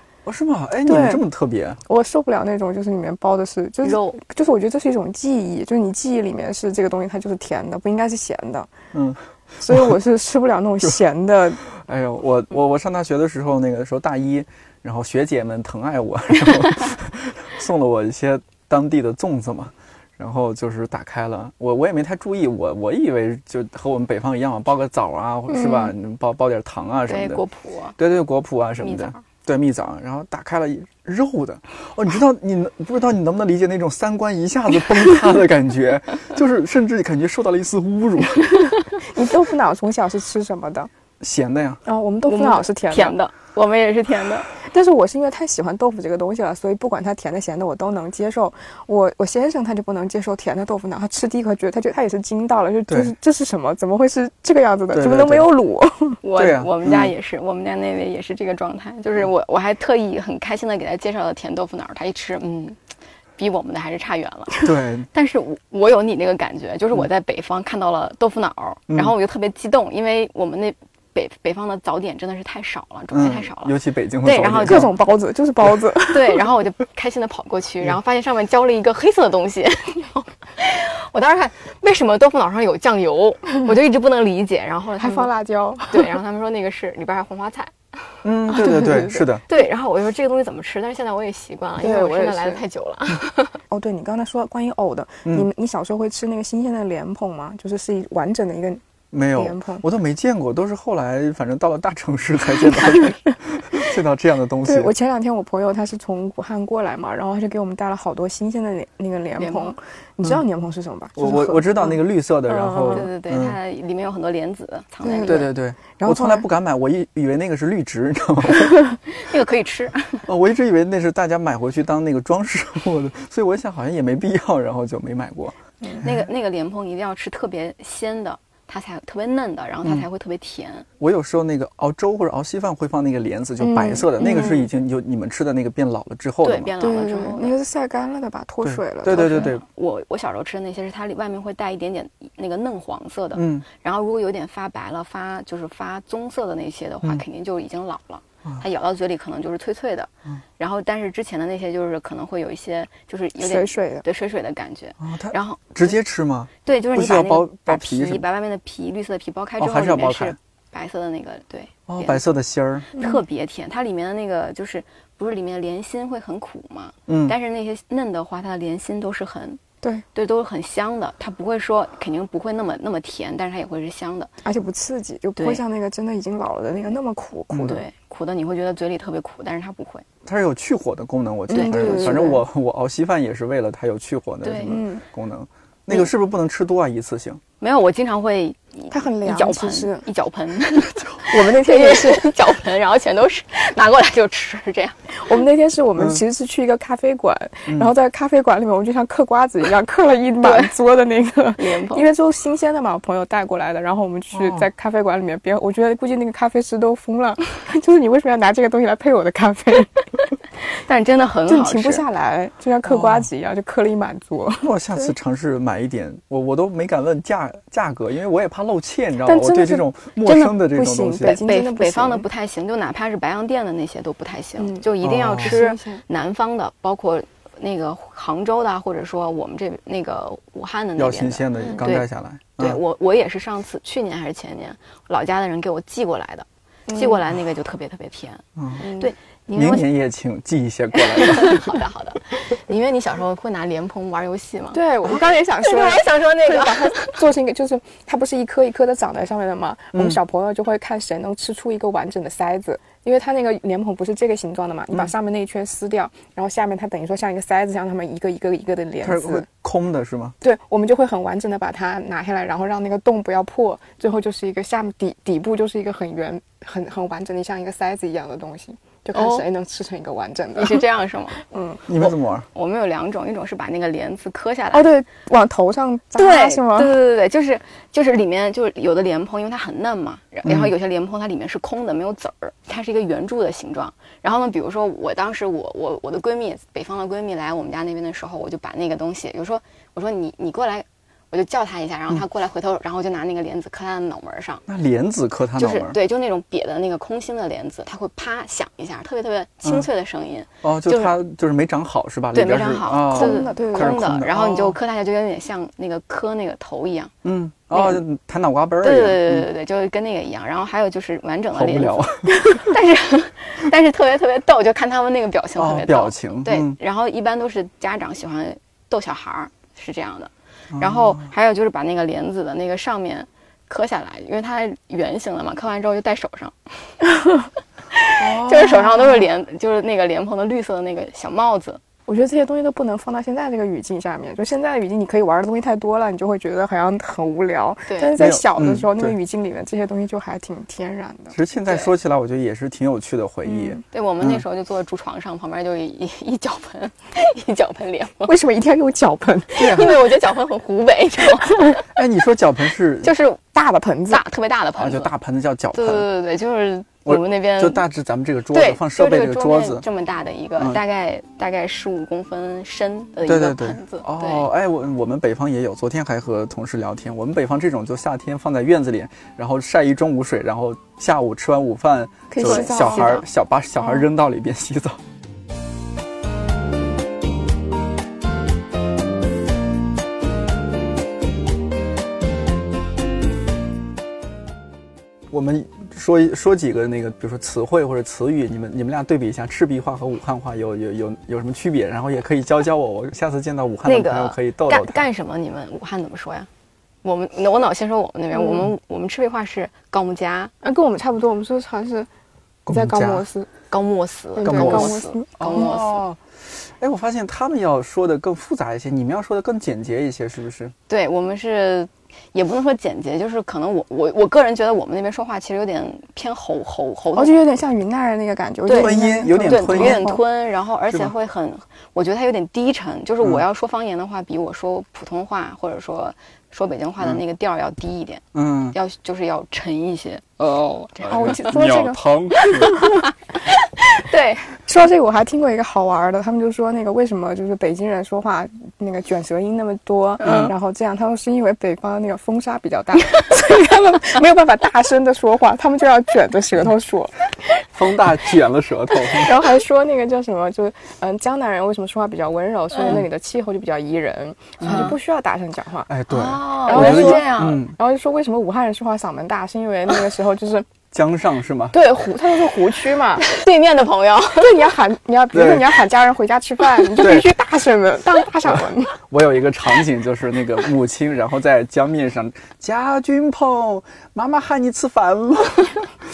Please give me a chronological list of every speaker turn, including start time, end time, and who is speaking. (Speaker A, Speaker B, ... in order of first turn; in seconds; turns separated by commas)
Speaker A: 0.2-1.8, Speaker B: 0.8-1.2, Speaker B: 1.9-8.7, Speaker C: 3.8-4.2, Speaker A: 8.9-9.9, Speaker B: 9.6-11.6, Speaker A: 11.7-27.4, Speaker B: 25.5-25.9, Speaker C: 27.1-28.0, Speaker A: 28.0-38.7, Speaker C: 28.8-29.2, Speaker B: 39.0-40.9, Speaker A: 41.2-41.8, Speaker B: 41.8-43.1, Speaker C: 42.2-44.5, Speaker B: 44.6-56.2, Speaker A: 52.9-53.1, Speaker A: 54.9-55.5, Speaker C: 56.2-62.8, Speaker A: 56.4-57.1, Speaker C: 63.4-74.9, Speaker A: 64.6-65.1, Speaker A: 68.9-69.1, Speaker A: 73.1-75.0, Speaker B: 74.6-76.4, Speaker C: 76.1-85.3, Speaker B: 85.0-86.1, Speaker C: 85.9-87.7, Speaker A: 88.2-89.4, Speaker C: 88.5-93.6, Speaker B: 88.6-89.2, Speaker B: 91.8-92.6, Speaker B: 93.7-98.8, Speaker A: 99.1-104.9, Speaker B: 99.3-99.8, Speaker B: 102.8-103.1, Speaker B: 104.6-113.1, Speaker C: 109.4-109.7, Speaker A: 111.2-113.6, Speaker C: 112.9-115.5, Speaker B: 115.0-116.5, Speaker A: 115.2-118.8, Speaker C: 119.1-120.3, Speaker A: 120.2-126.1, Speaker C: 126.0-130.9, Speaker A: 131.0-136.7, Speaker B: 133.6-134.6, Speaker C: 136.4-137.6, Speaker B: 136.8-139.5, Speaker A: 138.6-139.6, Speaker C: 139.1-156.0, Speaker A: 143.3-143.7, Speaker B: 153.4-154.0, Speaker A: 155.0-158.2, Speaker C: 156.6-162.2, Speaker A: 159.6-160.4, Speaker A: 161.9-162.9, Speaker C: 162.9-169.6, Speaker A: 167.1-167.3, Speaker C: 170.1-174.3, Speaker B: 174.4-177.8, Speaker C: 175.4-175.6, Speaker A: 177.5-177.8, Speaker C: 177.7-180.0, Speaker A: 180.2-187.4, Speaker B: 181.5-182.4, Speaker C: 181.5-182.3, Speaker C: 184.4-184.8, Speaker B: 184.6-185.0, Speaker C: 187.6-195.0, Speaker B: 188.9-190.1, Speaker B: 191.2-192.3, Speaker B: 195.1-210.0, Speaker A: 196.0-196.2, Speaker A: 197.7-197.9, Speaker C: 200.4-200.7, Speaker C: 201.6-202.1, Speaker A: 204.3-204.7, Speaker C: 210.6-212.0, Speaker B: 211.5-215.1, Speaker A: 212.8-213.3, Speaker A: 214.6-221.4, Speaker B: 219.2-219.8, Speaker C: 220.2-220.6, Speaker B: 220.5-222.2, Speaker C: 221.2-239.9, Speaker B: 224.6-226.0, Speaker A: 225.0-225.6, Speaker A: 231.0-232.8, Speaker B: 236.9-237.2, Speaker A: 238.6-238.8, Speaker B: 238.8-239.1, Speaker A: 239.5-241.7, Speaker C: 241.1-247.2, Speaker B: 244.7-259.4, Speaker A: 249.9-250.2, Speaker A: 259.0-260.4, Speaker B: 260.4-270.8, Speaker C: 269.1-269.4, Speaker C: 270.5-271.4, Speaker B: 271.4-271.8, Speaker A: 271.9-272.4, Speaker C: 272.0-274.9, Speaker B: 274.7-277.0, Speaker C: 276.1-294.6, Speaker A: 280.4-280.7, Speaker A: 294.7-296.0, Speaker C: 295.6-301.1, Speaker A: 300.6-304.8, Speaker C: 302.3-307.1, Speaker B: 303.1-304.0, Speaker A: 307.2-309.5, Speaker C: 307.7-308.0, Speaker C: 308.8-326.5, Speaker A: 311.5-312.7, Speaker A: 315.6-316.8, Speaker A: 320.7-321.3, Speaker C: 327.9-331.8, Speaker A: 328.2-329.2, Speaker B: 332.1-341.4, Speaker C: 337.9-338.1, Speaker A: 338.2-339.2, Speaker A: 341.3-344.4, Speaker B: 343.4-343.8, Speaker C: 343.9-348.4, Speaker B: 348.2-349.9, Speaker C: 349.5-351.8, Speaker A: 349.6-349.9, Speaker A: 351.9-353.1, Speaker C: 353.0-353.4, Speaker B: 353.5-354.2, Speaker C: 354.1-355.1, Speaker A: 354.8-356.1, Speaker C: 355.7-357.8, Speaker A: 357.1-359.8, Speaker C: 358.5-364.5, Speaker A: 363.2-375.0, Speaker B: 372.3-373.2, Speaker C: 372.4-373.2, Speaker A: 385.3-395.0, Speaker C: 393.8-396.5, Speaker C: 397.0-400.5, Speaker B: 398.3-398.6, Speaker B: 400.6-402.1, Speaker A: 402.7-403.2, Speaker B: 402.7-403.5, Speaker C: 403.7-406.0, Speaker B: 404.4-405.7, Speaker A: 404.4-410.7, Speaker C: 410.9-417.4, Speaker B: 417.1-420.2, Speaker C: 418.6-431.6, Speaker A: 418.7-420.1, Speaker A: 428.3-428.8, Speaker A: 431.0-432.8, Speaker B: 431.0-432.9, Speaker C: 432.4-432.9, Speaker C: 433.4-434.6, Speaker B: 434.6-447.3, Speaker C: 440.2-440.5, Speaker A: 440.2-440.5, Speaker A: 447.7-449.4, Speaker B: 449.1-455.9, Speaker C: 452.7-453.0, Speaker A: 454.6-454.9, Speaker C: 454.6-454.9, Speaker A: 455.9-457.8, Speaker C: 456.1-457.6, Speaker B: 456.7-460.7, Speaker A: 460.9-461.8, Speaker B: 461.7-463.2, Speaker C: 463.2-464.7, Speaker B: 464.4-469.0, Speaker A: 465.3-465.8, Speaker A: 467.0-467.3, Speaker A: 468.4-475.8